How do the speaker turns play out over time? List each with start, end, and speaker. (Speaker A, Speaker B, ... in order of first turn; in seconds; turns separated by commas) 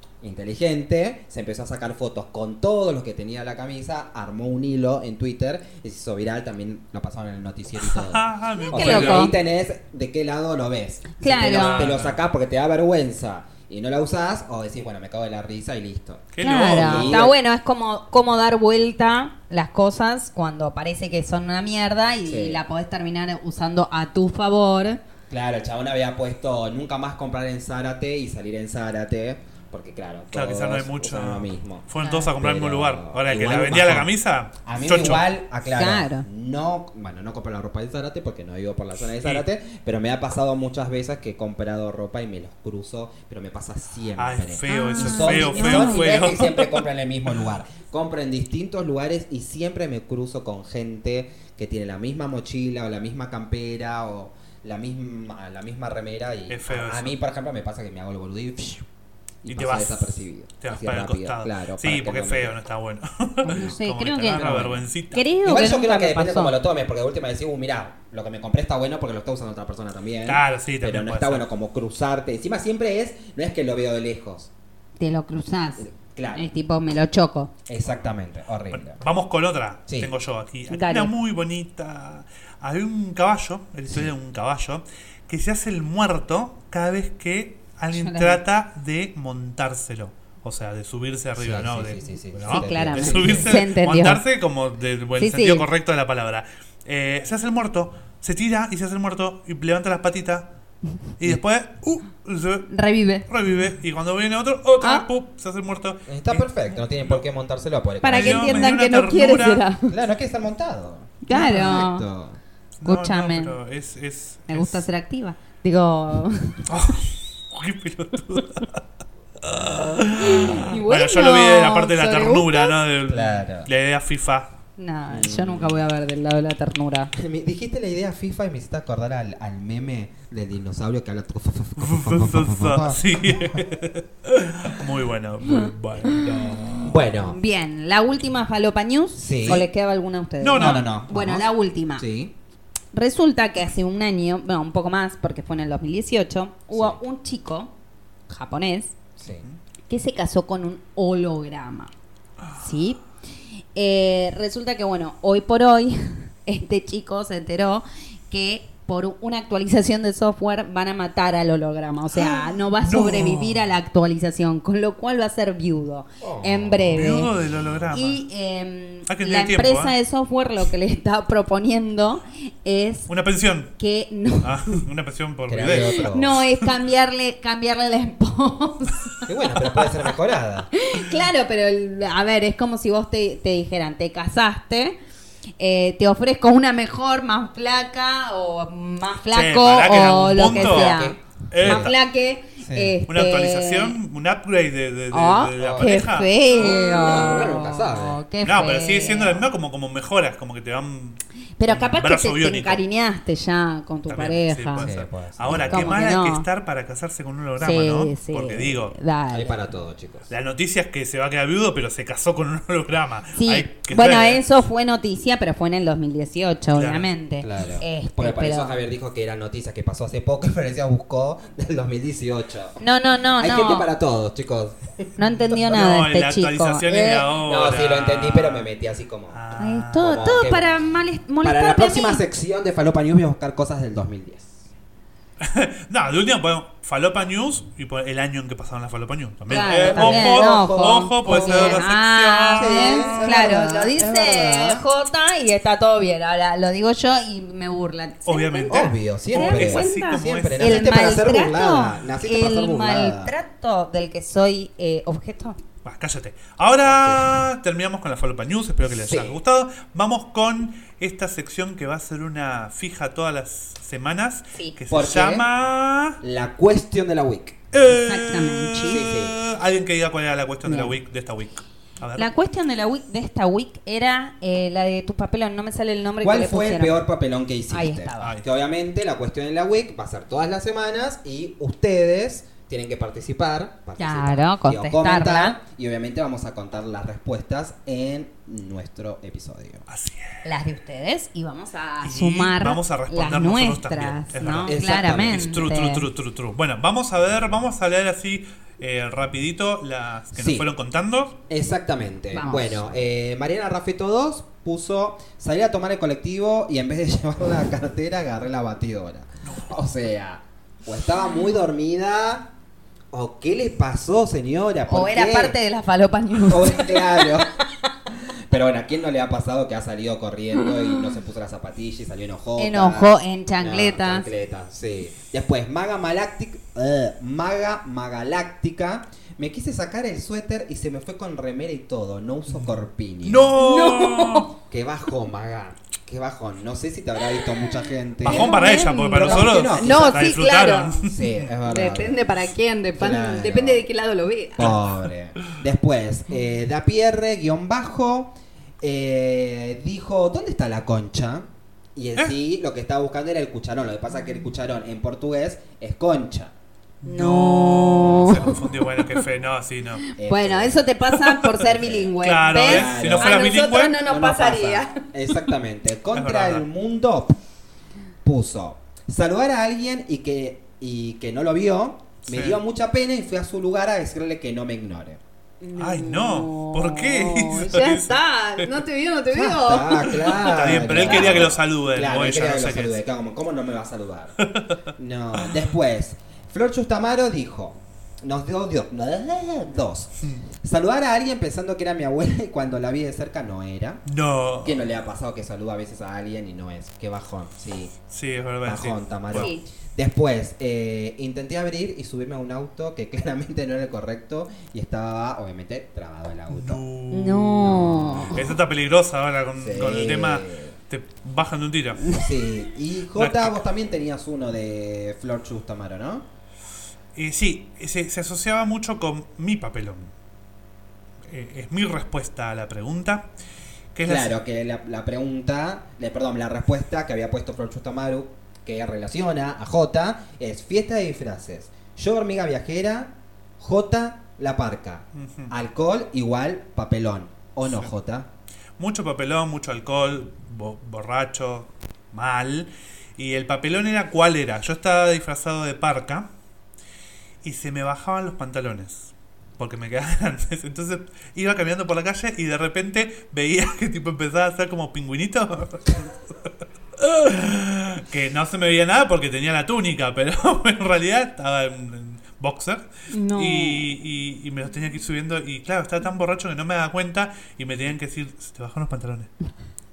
Speaker A: 0.2-17.3, Speaker B: 7.8-9.3, Speaker C: 8.7-9.3, Speaker C: 11.2-11.9, Speaker B: 11.3-12.2, Speaker B: 16.3-17.2, Speaker C: 16.4-25.0, Speaker A: 22.2-22.6, Speaker A: 25.3-58.9, Speaker B: 30.3-35.2, Speaker C: 32.0-32.3, Speaker C: 35.7-36.2, Speaker B: 44.2-46.8, Speaker C: 44.7-46.3, Speaker B: 56.5-57.1, Speaker A: 59.4-62.6, Speaker B: 59.5-65.2, Speaker C: 63.4-66.5, Speaker A: 65.4-74.5, Speaker B: 70.2-71.4, Speaker C: 75.0-77.5, Speaker A: 75.8-76.5, Speaker A: 77.7-79.0, Speaker B: 78.9-100.5, Speaker C: 80.7-81.1, Speaker C: 87.9-88.4, Speaker A: 91.3-93.6, Speaker C: 92.5-94.2, Speaker C: 95.2-95.7, Speaker B: 101.2-102.7, Speaker C: 102.7-103.3, Speaker B: 103.3-106.5, Speaker C: 104.8-105.1, Speaker A: 106.1-108.8, Speaker C: 108.0-109.9, Speaker B: 108.1-109.6, Speaker A: 109.9-112.4, Speaker C: 111.2-112.0, Speaker B: 111.3-111.8, Speaker B: 112.8-114.8, Speaker C: 112.8-113.5, Speaker C: 114.5-116.7, Speaker B: 116.7-118.8, Speaker B: 119.4-124.5, Speaker C: 120.0-122.8, Speaker A: 123.1-123.7, Speaker C: 124.8-127.1, Speaker A: 125.1-125.8, Speaker A: 127.1-133.7, Speaker B: 131.8-137.0, Speaker C: 135.5-136.5, Speaker A: 136.8-137.4, Speaker C: 137.2-142.1, Speaker A: 139.2-139.7, Speaker B: 140.4-140.8, Speaker A: 140.6-141.5, Speaker A: 142.0-142.3, Speaker C: 142.9-147.7, Speaker A: 146.7-147.0, Speaker C: 148.3-148.9, Speaker A: 149.2-149.4, Speaker C: 149.9-151.9, Speaker C: 152.6-153.0, Speaker C: 153.7-167.3, Speaker B: 162.1-163.6, Speaker A: 166.2-167.8, Speaker B: 166.9-168.2, Speaker C: 167.9-173.1, Speaker B: 169.1-169.9, Speaker B: 173.1-173.7, Speaker C: 173.8-174.8, Speaker B: 174.4-176.1, Speaker A: 175.5-176.4, Speaker C: 176.1-179.3, Speaker A: 179.3-180.7, Speaker C: 180.7-185.0, Speaker C: 185.6-194.0, Speaker B: 189.3-190.9, Speaker A: 190.4-191.9, Speaker B: 191.5-191.9, Speaker A: 192.6-193.0, Speaker B: 193.1-196.3, Speaker C: 195.1-199.4, Speaker A: 195.6-195.9, Speaker A: 196.5-198.2, Speaker B: 198.4-202.8, Speaker C: 201.6-204.9, Speaker B: 204.1-208.9, Speaker A: 204.8-206.0, Speaker C: 205.5-206.5, Speaker C: 207.6-209.6, Speaker A: 209.3-210.3, Speaker B: 210.3-214.4, Speaker C: 213.3-218.7, Speaker B: 216.7-217.1, Speaker A: 217.4-222.8, Speaker C: 222.8-223.9, Speaker A: 223.4-225.6, Speaker C: 225.2-227.3, Speaker B: 225.7-228.7, Speaker A: 227.4-229.4, Speaker B: 229.3-230.5, Speaker C: 229.6-232.2, Speaker A: 230.0-230.7, Speaker A: 231.4-234.6, Speaker B: 235.4-243.4, Speaker A: 239.5-241.8, Speaker C: 239.5-255.6, Speaker A: 242.6-244.8, Speaker B: 248.2-251.1, Speaker A: 248.7-253.3, Speaker B: 255.8-266.2, Speaker A: 256.8-257.4, Speaker A: 259.1-259.4, Speaker A: 264.9-265.4, Speaker A: 266.2-267.6, Speaker B: 267.7-272.3, Speaker C: 267.9-269.0, Speaker A: 268.9-269.4, Speaker C: 270.6-271.0, Speaker C: 272.2-277.0, Speaker A: 276.2-289.8, Speaker C: 277.7-278.3, Speaker C: 284.0-285.6, Speaker B: 289.9-290.4, Speaker C: 290.4-296.0, Speaker B: 292.0-301.3, Speaker A: 294.6-295.6, Speaker A: 300.3-300.7, Speaker A: 301.5-312.5, Speaker C: 302.3-302.8, Speaker A: 313.1-315.6, Speaker C: 314.9-317.6, Speaker A: 316.5-317.5, Speaker A: 318.1-333.6, Speaker C: 322.6-324.2, Speaker B: 333.2-334.5, Speaker C: 333.5-334.5, Speaker A: 334.7-340.4, Speaker B: 338.2-341.2, Speaker C: 338.2-341.1, Speaker A: 341.0-342.2, Speaker C: 341.6-344.8, Speaker A: 343.0-343.8, Speaker A: 344.6-356.5, Speaker B: 344.6-344.9, Speaker B: 357.0-360.0, Speaker C: 357.0-359.1, Speaker C: 360.0-365.1, Speaker A: 360.2-360.9, Speaker B: 361.1-364.0, Speaker A: 362.6-367.3, Speaker B: 366.1-366.6, Speaker A: 368.2-375.2, Speaker B: 372.3-372.6, Speaker C: 375.6-381.4, Speaker B: 375.8-378.8, Speaker A: 379.3-384.4, Speaker B: 380.2-382.9, Speaker B: 384.4-384.8, Speaker A: 384.9-394.0, Speaker B: 394.1-394.9, Speaker A: 394.6-397.9, Speaker B: 398.1-399.5, Speaker A: 398.6-406.8, Speaker C: 399.3-399.6, Speaker B: 406.5-412.2, Speaker C: 407.1-408.5, Speaker A: 407.8-408.3, Speaker A: 409.6-410.7, Speaker A: 412.1-416.2, Speaker B: 413.1-413.6, Speaker B: 417.1-420.1, Speaker B: 421.3-423.3, Speaker B: 423.9-424.3, Speaker A: 424.0-438.3, Speaker B: 435.1-435.5, Speaker B: 437.6-437.9, Speaker B: 438.8-446.3, Speaker B: 447.4-456.3, Speaker B: 457.0-469.3, Speaker C: 463.1-463.9